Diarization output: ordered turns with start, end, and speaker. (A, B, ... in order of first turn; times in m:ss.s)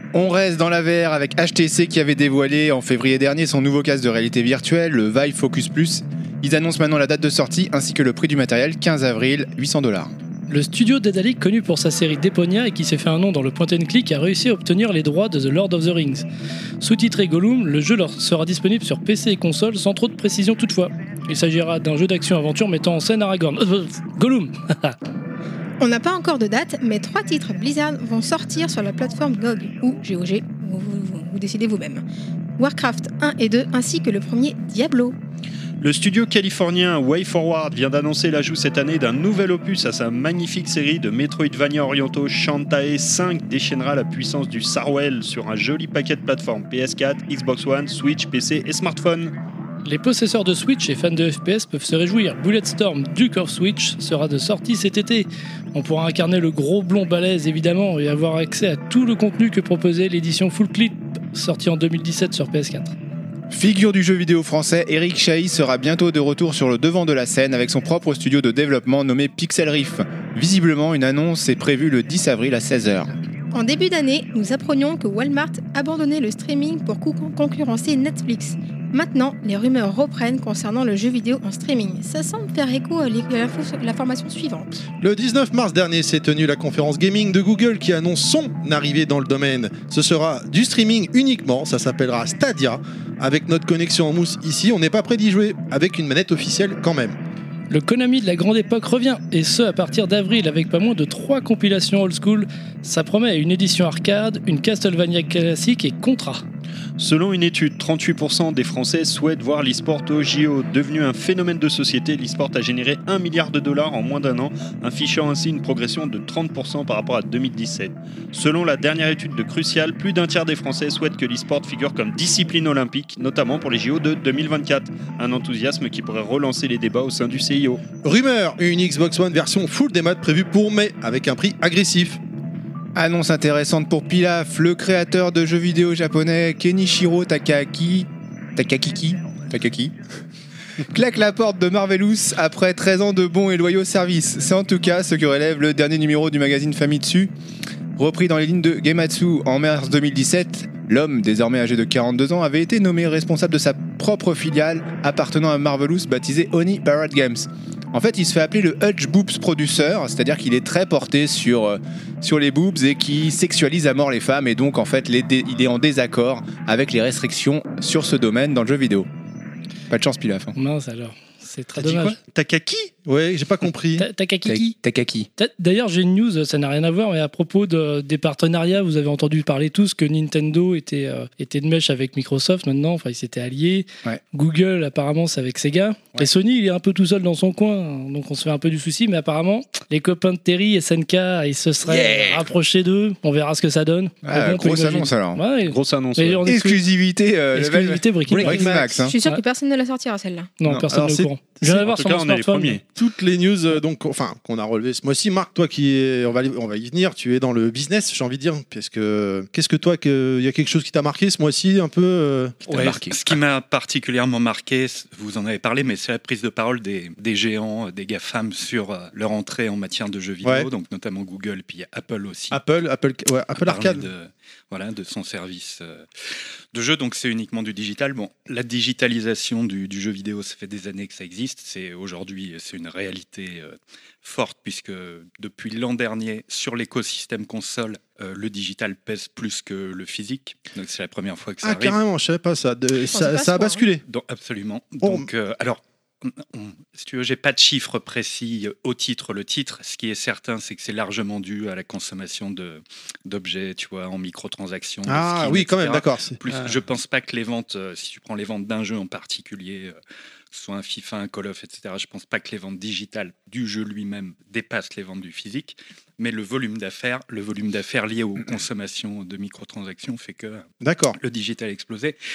0:00.1-0:10.1 A
0:10.5-0:16.2 B
0:16.8-0:25.0 B
0:25.8-0:32.0 C
0:32.6-0:35.1 C
0:35.8-0:49.3 D
0:49.8-1:02.9 B
1:03.5-1:13.1 A
1:13.5-1:24.7 C
1:25.0-1:37.2 E
1:37.7-1:46.4 B
1:47.0-2:07.8 D
2:08.0-2:12.2 E
2:12.9-2:19.9 A
2:20.9-2:27.3 A
2:28.0-2:49.1 A
2:49.9-2:50.5 A
2:50.6-2:52.2 B
2:51.8-2:52.9 D
2:53.0-2:54.1 E
2:54.0-2:54.8 B
2:54.4-2:55.3 A
2:55.4-3:16.8 B
3:14.2-3:15.4 A
3:15.6-3:16.4 D
3:16.5-3:19.1 A
3:17.5-3:19.4 B
3:18.3-3:18.9 E
3:18.8-3:20.5 C
3:20.6-3:22.8 B
3:20.9-3:21.3 E
3:21.7-3:22.8 D
3:22.9-3:32.6 E
3:32.7-3:42.6 F
3:32.7-3:33.2 A
3:40.4-3:40.7 E
3:42.5-3:44.0 E
3:43.6-4:02.0 F
4:01.6-4:04.0 E
4:03.0-4:03.8 C
4:04.1-4:20.0 F
4:05.0-4:05.3 E
4:15.0-4:16.8 E
4:20.5-4:32.2 F
4:30.8-4:31.2 E